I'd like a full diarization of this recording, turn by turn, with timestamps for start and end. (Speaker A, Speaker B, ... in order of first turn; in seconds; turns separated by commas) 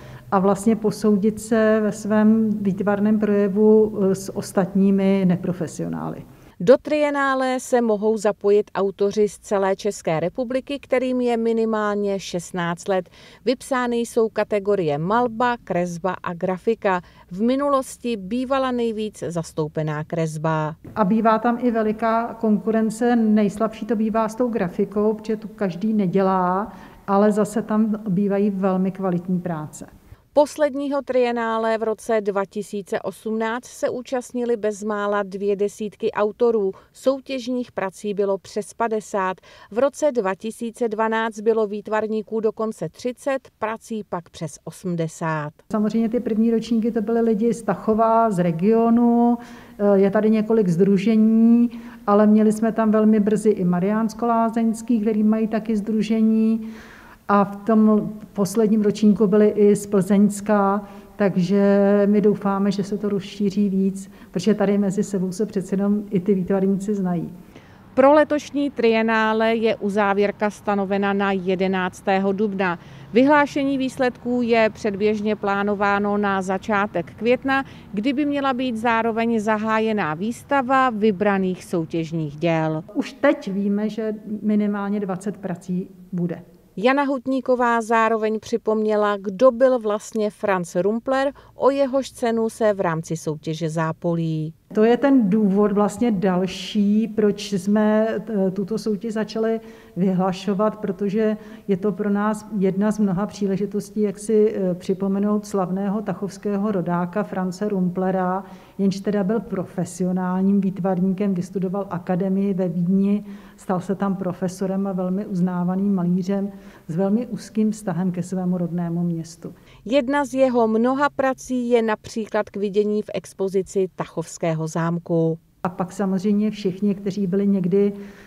Speaker A: 0.3-6.2, Speaker B: 6.6-20.8, Speaker A: 20.9-29.9, Speaker B: 30.3-45.6, Speaker A: 45.7-56.7, Speaker A: 57.3-67.3, Speaker B: 67.9-82.8, Speaker A: 82.9-86.4, Speaker B: 86.8-94.5, Speaker A: 94.7-119.5, Speaker B: 119.8-125.4, Speaker A: 125.6-127.9